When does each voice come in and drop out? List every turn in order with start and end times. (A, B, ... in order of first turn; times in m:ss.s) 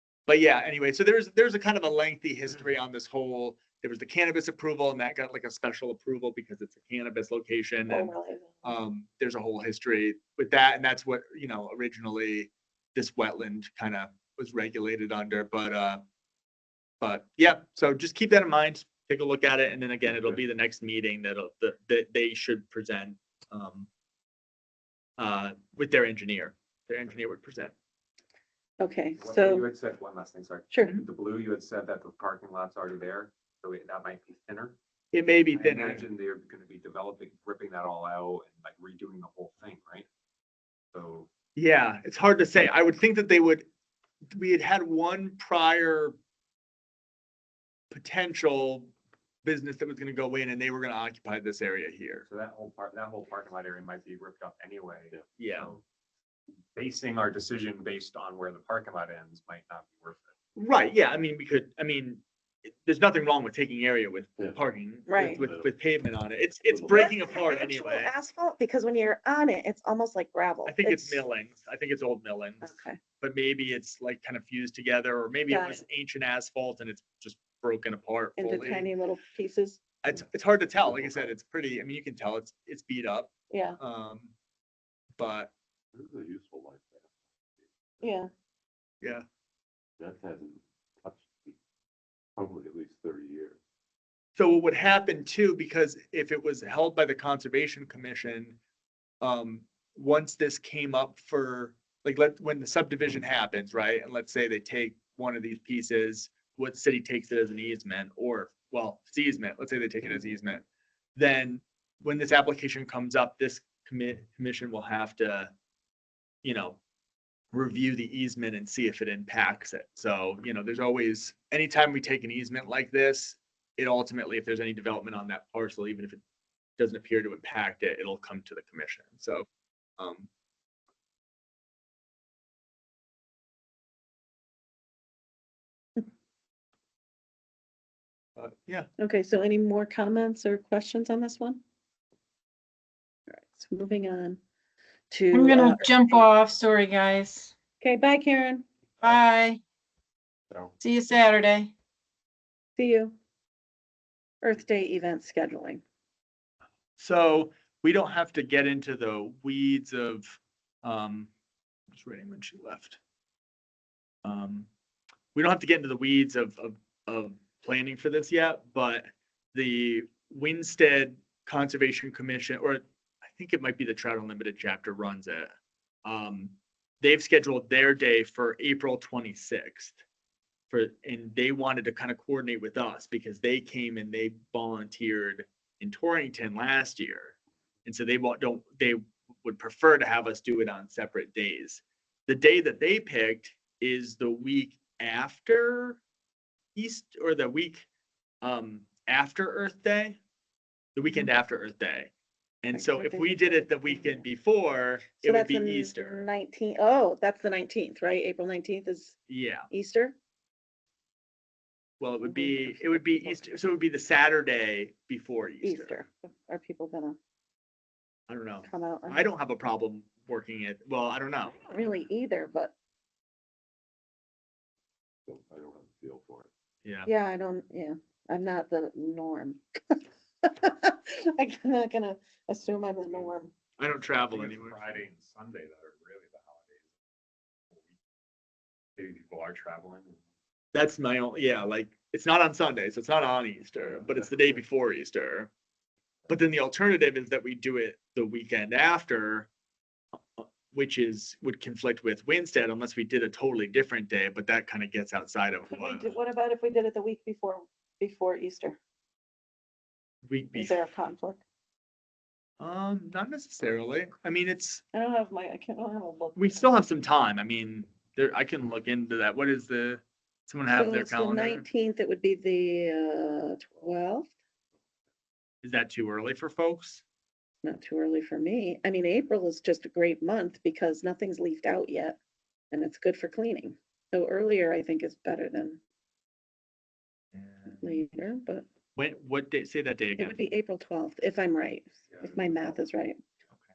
0:00.3-0:08.1 A
0:07.9-0:08.7 B
0:08.6-0:16.0 A
0:17.0-0:23.9 A
0:25.2-0:27.7 A
0:28.8-0:29.6 B
0:29.2-0:34.8 C
0:30.7-0:31.0 B
0:35.1-0:36.0 A
0:35.5-0:40.1 C
0:40.9-0:41.3 C
0:41.6-0:43.6 A
0:44.3-0:46.2 A
0:47.9-0:48.9 A
0:49.4-0:52.2 A
0:52.2-0:55.8 C
0:55.4-0:55.7 A
0:56.7-1:00.2 C
1:00.6-1:08.1 A
1:05.1-1:05.4 B
1:05.2-1:05.7 D
1:06.7-1:07.1 D
1:06.9-1:11.2 B
1:10.6-1:12.7 A
1:12.6-1:13.0 B
1:13.2-1:18.9 A
1:15.5-1:15.8 B
1:18.4-1:19.8 B
1:20.0-1:24.3 A
1:21.0-1:21.3 D
1:23.5-1:23.8 B
1:25.2-1:25.5 A
1:25.9-1:27.7 D
1:28.0-1:28.3 B
1:30.0-1:31.6 D
1:32.4-1:33.6 D
1:34.4-1:38.6 A
1:39.2-1:50.6 A
1:51.2-1:55.5 A
1:56.4-1:56.8 A
1:57.5-2:06.2 A
2:06.8-2:09.5 A
2:10.0-2:10.3 A
2:18.4-2:18.9 A
2:19.0-2:21.6 B
2:23.3-2:24.4 B
2:25.1-2:26.2 B
2:25.3-2:27.5 E
2:27.8-2:28.6 B
2:29.0-2:29.6 E
2:30.8-2:31.7 E
2:32.8-2:33.2 B
2:34.4-2:35.8 B
2:37.0-2:41.3 A
2:41.9-2:43.0 A
2:44.2-2:44.7 A
2:45.3-2:55.5 A
2:56.0-3:00.0 A
3:00.7-3:16.0 A
3:16.7-3:17.9 A
3:18.4-3:20.2 A
3:20.9-3:26.2 A
3:22.7-3:24.2 B
3:25.2-3:29.2 B
3:29.3-3:29.7 A
3:29.7-3:30.2 B
3:32.0-3:36.0 A
3:32.2-3:33.6 B
3:35.6-3:37.2 B
3:38.3-3:41.6 A
3:38.6-3:39.2 B
3:41.5-3:42.7 B
3:45.3-3:46.5 D
3:46.8-3:47.1 A
3:47.0-3:53.5 B
3:53.8-3:54.8 A
3:54.3-3:56.6 C
3:59.0-4:00.2 C
4:00.7-4:05.5 A
4:06.3-4:09.5 A
4:10.4-4:16.1 A
4:15.7-4:18.8 B
4:20.2-4:20.8 A
4:20.5-4:21.4 B
4:22.6-4:24.8 A
4:24.9-4:26.6 B
4:26.4-4:31.6 A
4:30.7-4:34.3 B
4:35.6-4:37.0 A
4:37.6-4:42.2 B
4:42.7-4:45.8 B
4:47.4-4:47.8 A
4:47.6-4:48.6 B
4:49.0-4:50.4 A
4:50.2-4:53.2 B